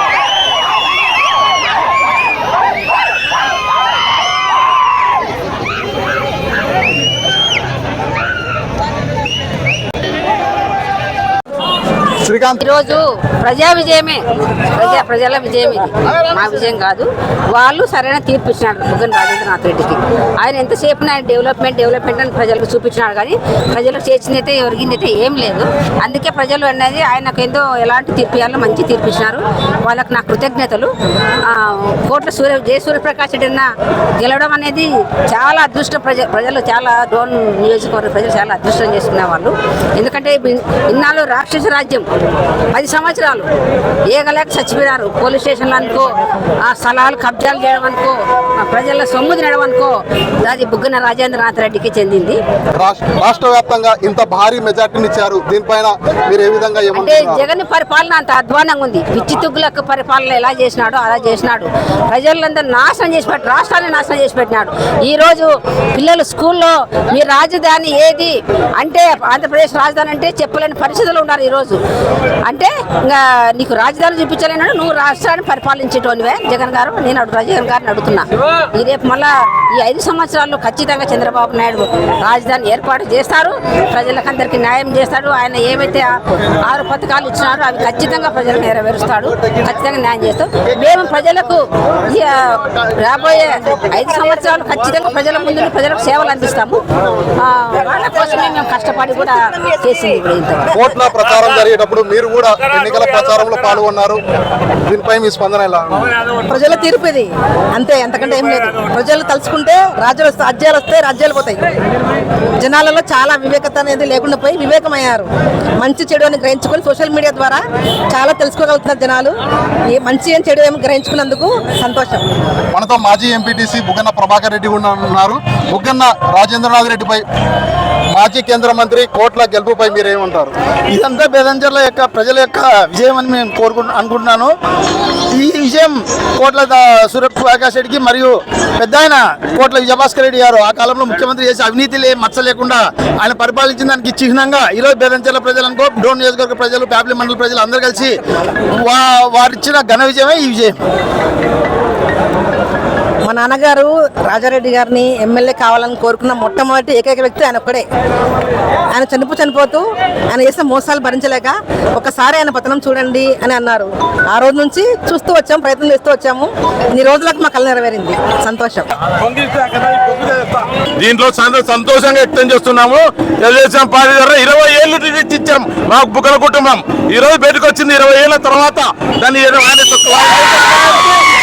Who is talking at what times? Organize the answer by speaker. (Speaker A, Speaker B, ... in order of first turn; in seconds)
Speaker A: 12.2-12.6, 52.8-57.5, 100.7-104.2, 104.9-106.1, 122.7-127.2, 128.2-130.5
Speaker B: 12.6-30.9, 31.4-42.1, 42.7-43.5, 44.1-46.1, 46.6-52.4, 56.9-71.8, 72.5-86.1, 86.6-96.8, 97.4-100.7
Speaker C: 106.5-111.7, 112.6-115.3, 115.8-117.6, 118.1-119.4, 119.9-122.2, 153.3-157.9, 158.9-168.9
Speaker D: 130.9-134.5, 135.3-148.2, 148.9-150.8
Speaker E: 169.2-181.1